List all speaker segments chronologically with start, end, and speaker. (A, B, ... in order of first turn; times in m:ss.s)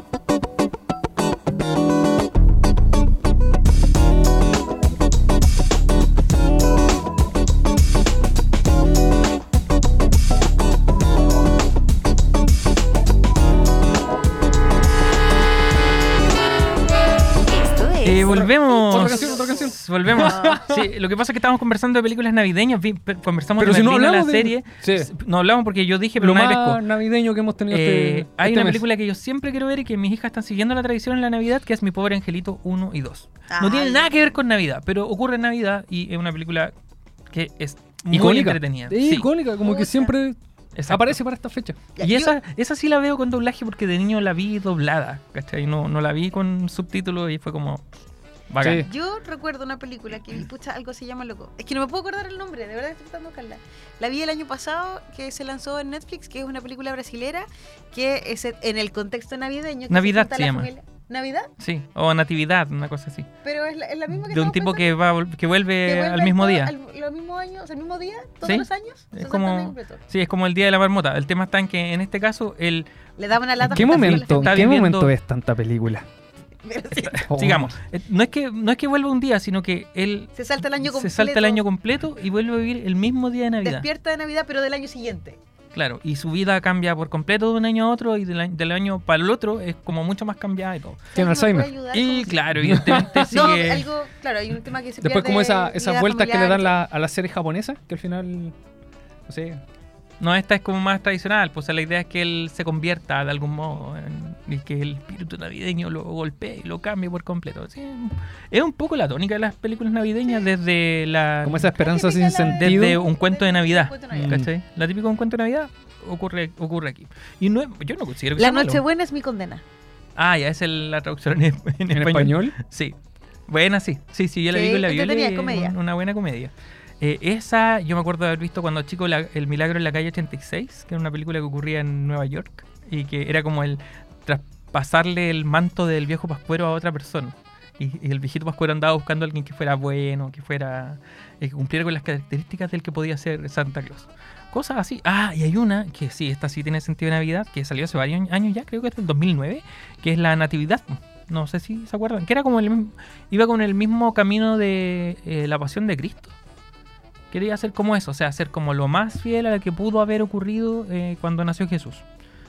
0:17.4-0:19.4 A
0:18.0-0:26.8 B
0:18.3-0:20.9 C
0:23.6-0:25.1 C
0:26.2-0:28.8 C
0:27.7-0:36.7 B
0:33.5-0:34.3 D
0:37.3-0:39.3 B
0:38.1-0:41.8 C
0:39.6-0:40.1 D
0:40.7-0:41.2 B
0:42.0-0:42.4 D
0:42.0-0:47.8 B
0:48.5-0:48.9 B
0:48.6-0:48.9 C
0:48.8-1:01.5 D
0:59.9-1:00.7 B
1:01.6-1:03.3 B
1:03.4-1:04.8 D
1:04.1-1:06.7 B
1:05.8-1:10.0 D
1:08.4-1:12.9 B
1:13.2-1:14.7 D
1:13.6-1:15.1 B
1:13.7-1:16.1 C
1:16.6-1:17.3 D
1:16.9-1:23.9 B
1:17.3-1:17.7 C
1:20.3-1:21.6 D
1:23.6-1:25.4 D
1:25.7-1:31.1 B
1:31.1-1:31.7 C
1:31.1-1:32.4 D
1:31.9-1:33.9 B
1:32.5-1:33.4 C
1:33.2-1:36.7 D
1:35.0-1:38.6 C
1:39.3-1:39.6 C
1:40.2-1:51.8 B
1:51.4-1:53.0 C
1:51.7-1:54.4 D
1:52.4-1:58.8 B
1:54.1-1:54.5 C
1:58.4-1:59.6 D
2:00.2-2:03.0 B
2:01.9-2:02.6 C
2:03.5-2:36.3 B
2:04.5-2:05.7 D
2:37.3-2:42.0 B